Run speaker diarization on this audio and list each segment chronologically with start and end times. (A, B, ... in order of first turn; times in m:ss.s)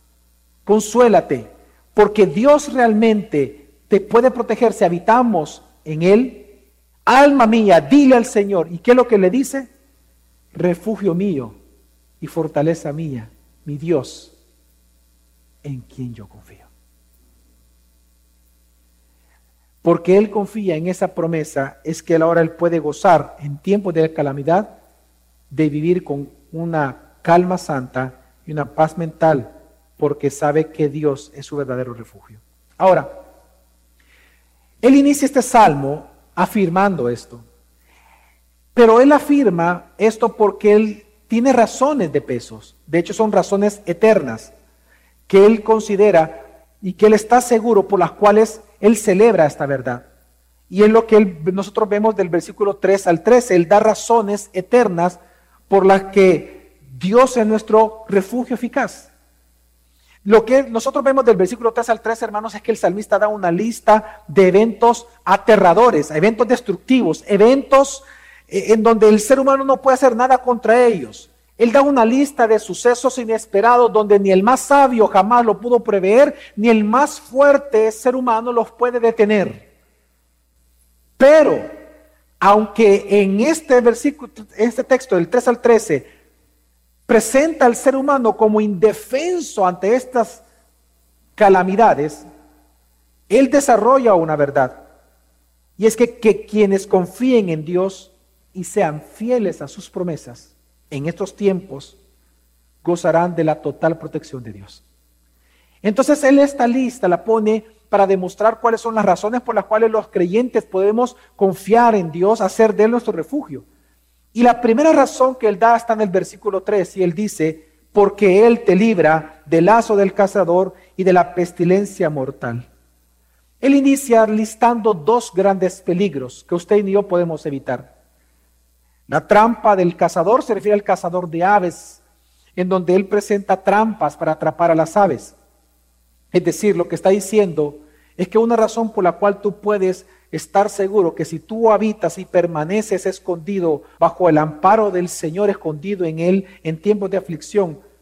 0:00.6-0:06.5 A
0:07.0-0:09.7 A
0:10.5-0:11.6 A
0:12.2-0:14.3 A
0:15.6-0:16.7 A
0:19.8-0:24.7 A
0:25.5-0:33.1 A
0:34.8-0:37.4 A
0:38.7-0:44.5 A
0:45.3-0:50.1 A
0:50.7-0:55.2 A
0:55.7-0:59.1 A
1:00.2-1:19.6 A
1:21.2-1:21.7 A
1:22.4-1:26.1 A
1:27.1-1:30.4 A
1:31.4-1:32.2 A
1:33.3-1:34.8 A
1:35.8-1:42.0 A
1:42.8-1:44.8 A
1:45.8-1:53.6 A
1:54.3-2:02.7 A
2:03.6-2:07.9 A
2:09.1-2:12.0 A
2:12.6-2:15.4 A
2:16.3-2:27.8 A